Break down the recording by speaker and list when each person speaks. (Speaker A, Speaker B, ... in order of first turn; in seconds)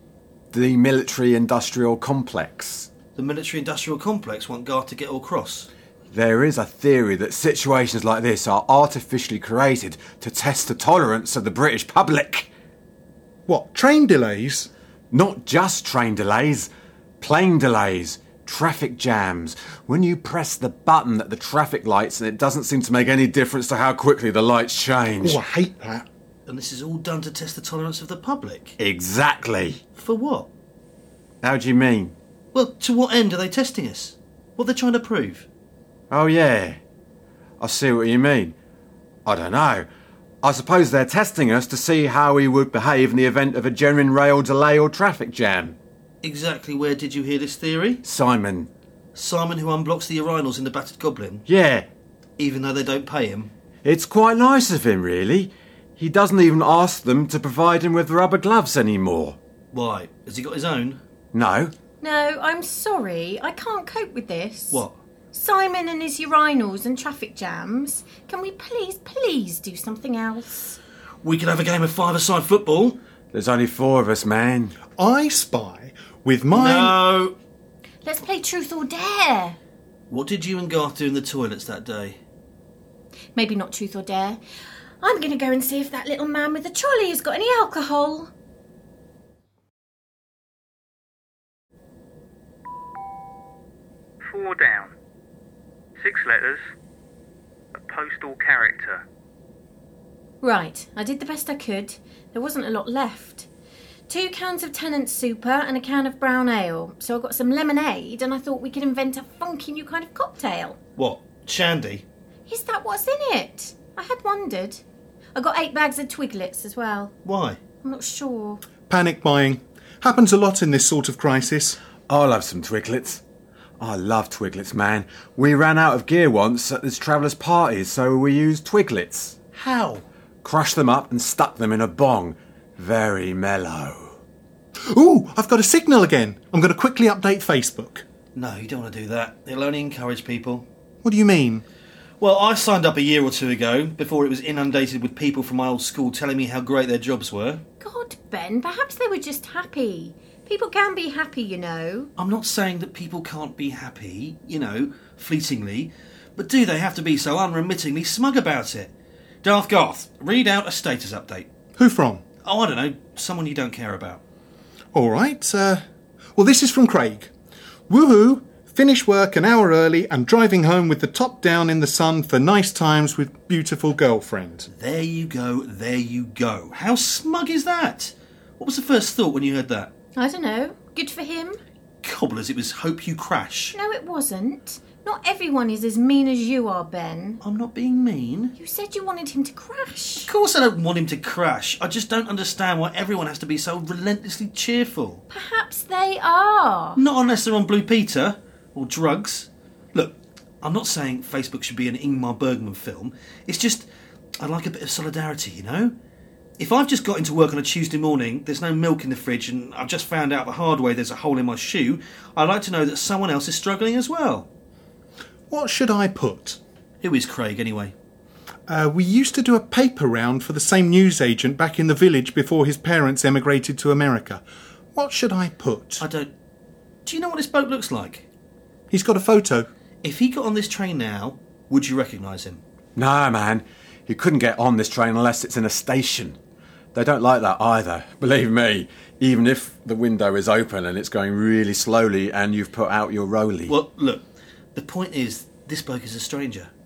Speaker A: 0.5-2.9, 6.1-12.5, 15.1-25.4, 28.8-29.8, 31.4-32.1, 36.1-36.8, 37.6-38.5, 39.2-39.9, 40.4-45.8, 48.0-48.7, 51.5-51.9, 53.8-59.4, 61.3-61.7, 73.3-74.8, 122.1-123.2, 123.8-129.3, 130.4-134.2, 232.9-236.4, 236.9-243.7
Speaker B: 3.1-5.7, 26.5-28.8, 29.9-30.5, 32.5-35.5, 46.2-48.0, 49.1-51.5, 52.4-53.5, 59.7-61.0, 71.2-73.0, 76.5-77.3, 80.1-82.2, 111.0-112.0, 117.2-117.6, 129.6-130.0, 138.3-140.7, 142.2-147.6, 152.2-161.5, 162.4-164.2, 174.7-179.9, 182.0-183.7, 187.4-188.5, 190.2-195.2, 197.0-203.9, 204.4-205.9, 206.6-214.5, 217.0-217.9, 226.0-226.3, 227.1-228.2, 230.0-232.6, 243.7-246.7
Speaker C: 13.5-14.7, 25.2-26.1, 75.0-77.0, 118.9-121.8, 134.9-138.0, 141.0-141.6, 161.8-162.2, 164.9-165.8, 166.3-167.3, 167.9-174.7, 215.5-216.6, 218.7-224.4, 224.9-226.0, 228.9-229.7
Speaker D: 62.0-70.8, 78.0-79.6, 83.3-84.4, 85.0-88.3, 100.4-103.5, 104.1-110.8, 112.5-114.8, 115.3-117.1, 117.8-118.6, 147.8-152.1, 180.2-181.6, 183.7-187.4, 188.6-190.3, 195.3-197.0
Speaker E: 94.2-94.9, 96.0-96.6, 97.7-99.0